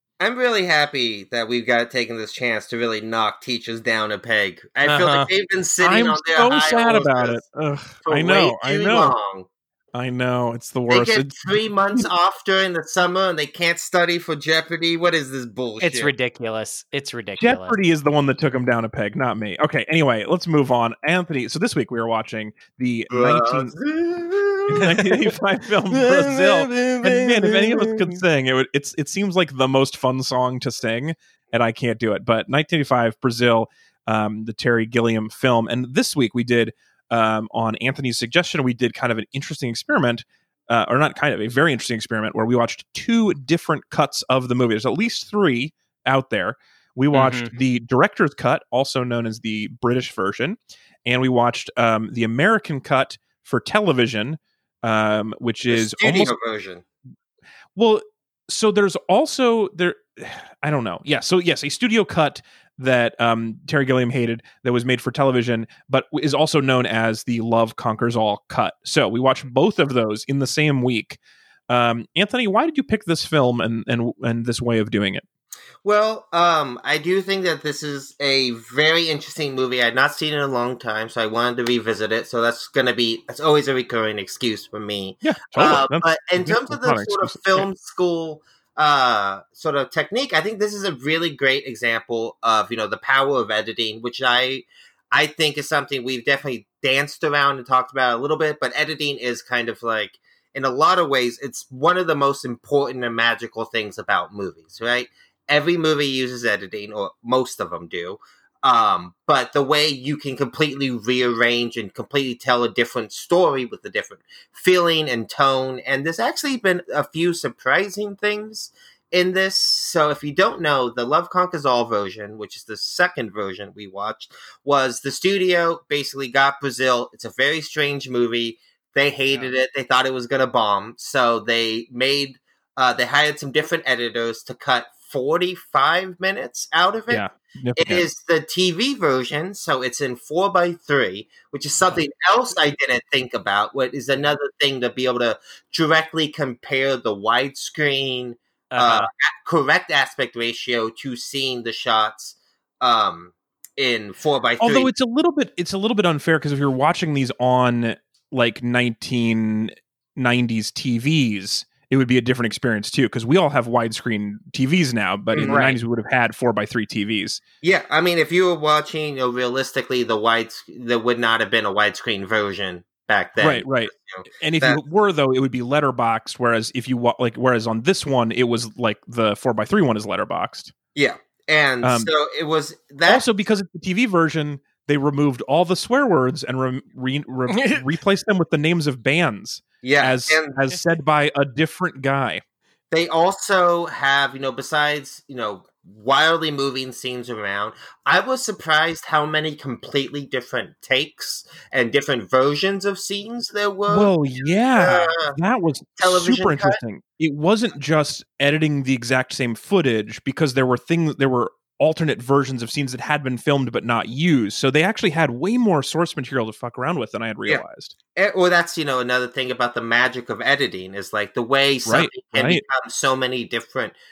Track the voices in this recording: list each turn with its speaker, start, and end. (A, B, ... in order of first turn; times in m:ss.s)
0:00.2-0:07.4 A
0:04.8-0:05.3 B
0:05.8-0:09.1 C
0:08.0-0:09.5 A
0:09.9-0:11.4 C
0:10.9-0:16.1 A
0:15.8-0:17.8 B
0:17.4-0:23.7 C
0:23.1-0:25.3 A
0:24.7-0:56.3 C
0:25.9-0:28.2 A
0:47.1-0:47.5 B
0:55.7-0:56.8 A
0:57.8-1:15.2 C
1:15.8-2:17.2 A
1:25.2-1:27.7 C
2:17.1-2:18.1 C
2:17.8-2:34.9 A
2:28.7-2:29.1 B
2:34.6-2:47.4 C
2:45.3-2:45.7 A
2:45.4-2:45.8 B
2:47.6-2:54.8 A
2:53.4-3:00.7 C
3:01.0-3:03.2 A
3:01.8-3:02.1 C
3:03.1-3:12.4 C
3:07.6-3:07.8 B
3:09.8-3:10.8 A
3:12.9-3:24.1 A
3:23.9-3:37.9 C
3:24.7-3:25.4 A
3:26.0-3:26.8 A
3:38.2-3:44.0 A
3:41.9-3:42.6 C